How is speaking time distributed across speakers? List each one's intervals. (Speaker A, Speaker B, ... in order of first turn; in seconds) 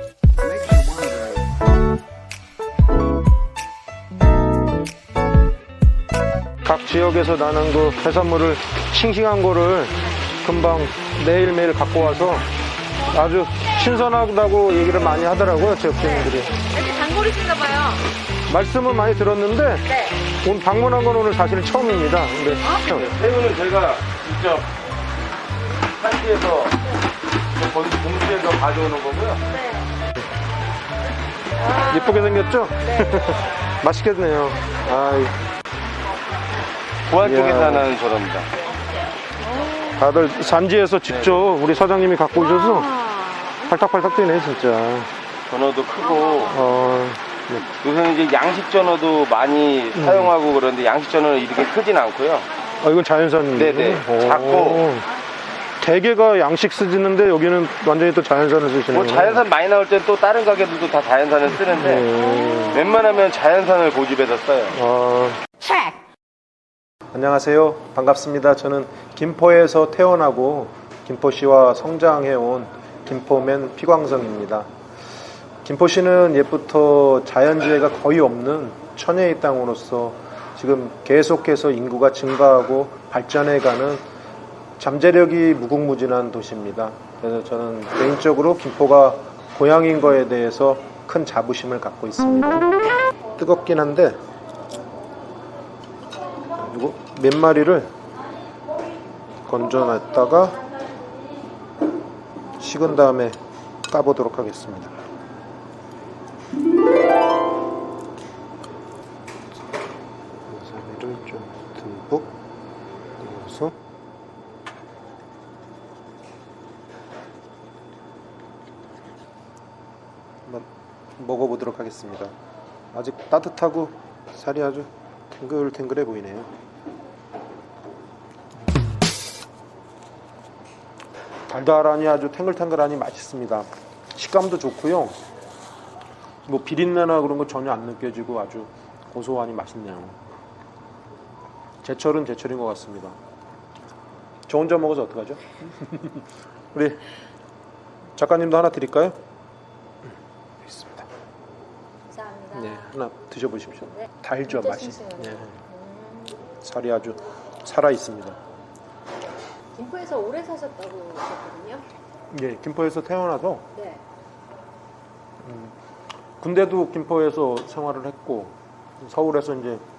Speaker A: 0.7-1.2, 6.6-12.4, 13.1-16.6, 18.5-19.9, 20.4-23.1, 31.8-35.4, 37.2-37.9, 39.9-43.0, 43.7-45.1, 46.4-47.6, 49.9-50.4, 52.8-55.1, 55.8-59.4, 61.6-62.9, 64.7-65.9, 67.1-74.7, 75.6-84.0, 84.8-92.7, 93.4-94.2, 96.5-97.9, 99.5-100.7, 102.6-103.4, 103.9-105.0, 110.5-112.3, 113.2-113.8, 121.2-122.3, 122.9-126.5, 131.5-135.1, 136.4-140.2, 141.8-143.2, 144.5-147.0, 148.2-149.2, 150.6-151.1, 152.6-155.5, 156.6-158.4, 162.3-163.7, 165.4-165.7, 166.4-169.8
Speaker B: 16.0-18.1, 19.9-20.2, 22.6-22.9, 29.5-29.8, 31.6-32.2, 32.9-33.4, 39.4-40.0, 42.6-43.7, 152.1-152.9, 154.5-156.5, 159.7-161.8, 163.7-164.0
Speaker C: 22.9-24.7, 25.9-26.8, 27.5-29.5, 37.0-38.6, 41.1-41.5, 45.5-46.6, 47.8-52.5, 53.5-54.9, 58.9-62.2, 62.7-64.8